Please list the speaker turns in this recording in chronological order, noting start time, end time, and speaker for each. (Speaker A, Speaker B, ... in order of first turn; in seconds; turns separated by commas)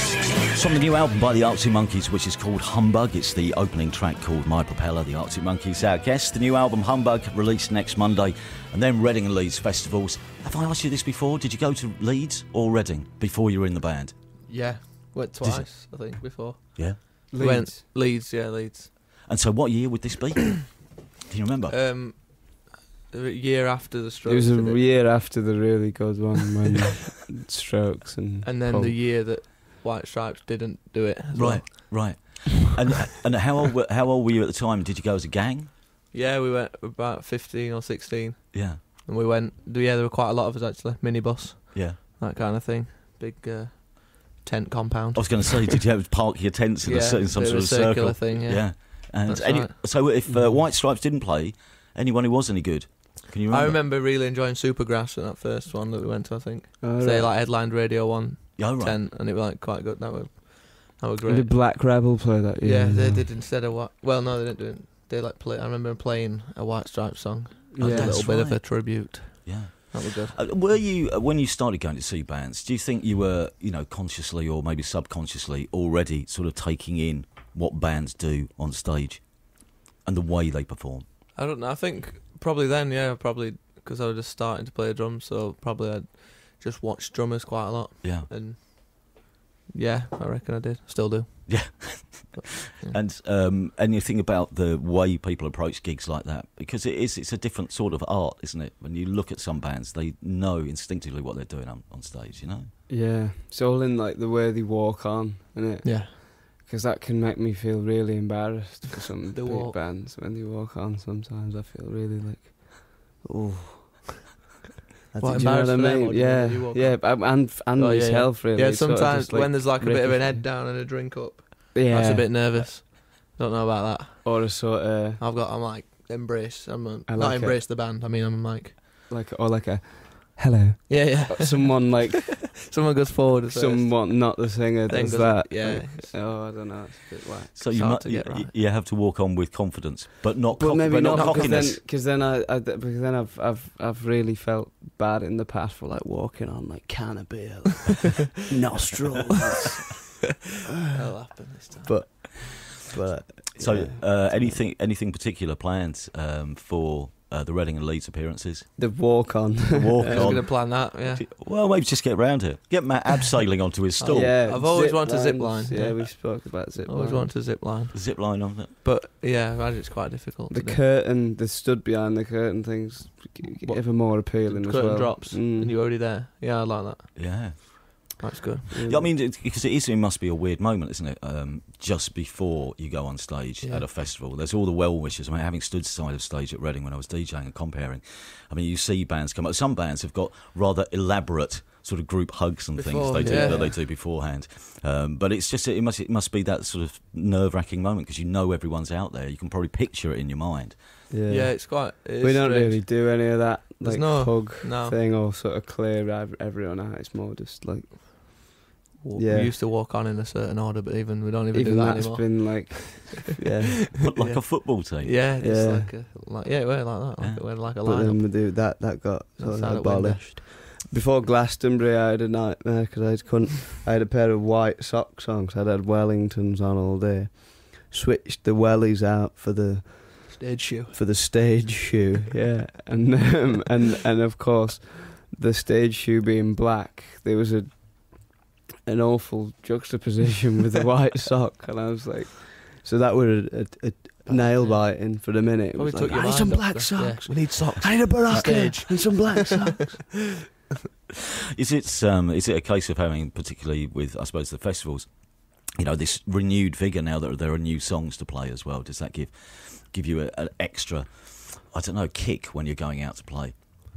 Speaker A: 0.5-14.2, Speaker B: 14.4-18.9, Speaker A: 15.4-16.1, Speaker C: 17.3-17.8, Speaker A: 19.3-21.8, Speaker B: 21.7-24.8, Speaker C: 24.2-29.0, Speaker B: 28.4-32.1, Speaker A: 31.3-35.7, Speaker B: 36.1-45.9, Speaker A: 38.5-38.8, Speaker A: 45.1-53.8, Speaker B: 46.8-49.8, Speaker C: 50.3-50.6, Speaker B: 53.5-61.6, Speaker C: 56.8-57.4, Speaker A: 58.6-59.0, Speaker C: 61.2-63.3, Speaker B: 62.6-70.4, Speaker C: 67.7-68.2, Speaker A: 67.8-81.1, Speaker B: 81.3-93.0, Speaker A: 88.0-88.3, Speaker A: 91.5-102.7, Speaker C: 102.9-114.0, Speaker B: 105.8-106.2, Speaker B: 109.3-109.8, Speaker C: 115.1-120.5, Speaker B: 115.2-124.6, Speaker C: 121.7-122.6, Speaker C: 124.2-125.2, Speaker B: 125.2-128.8, Speaker C: 127.1-127.7, Speaker C: 129.1-132.5, Speaker B: 130.9-136.2, Speaker C: 133.5-137.6, Speaker A: 137.5-141.8, Speaker B: 137.7-138.5, Speaker C: 140.5-150.0, Speaker B: 141.1-141.6, Speaker B: 150.9-152.3, Speaker C: 151.8-154.7, Speaker A: 153.6-158.7, Speaker C: 158.8-160.4, Speaker A: 159.7-164.4, Speaker B: 160.1-161.2, Speaker B: 164.0-170.8, Speaker C: 164.1-167.3, Speaker A: 167.9-168.7, Speaker C: 170.5-175.8, Speaker B: 173.6-178.7, Speaker A: 177.2-178.1, Speaker C: 178.7-179.2, Speaker A: 178.8-200.8, Speaker B: 183.6-183.9, Speaker B: 192.8-193.8, Speaker C: 193.2-193.8, Speaker C: 201.1-208.5, Speaker B: 201.3-203.1, Speaker B: 203.8-205.0, Speaker B: 209.0-213.0, Speaker C: 209.2-209.5, Speaker C: 211.5-213.9, Speaker A: 214.0-215.2, Speaker B: 214.0-218.7, Speaker C: 215.4-216.0, Speaker A: 217.2-217.4, Speaker C: 217.8-250.1, Speaker B: 219.4-220.3, Speaker B: 230.3-231.2, Speaker B: 244.2-250.0, Speaker A: 248.0-248.8, Speaker A: 251.5-263.5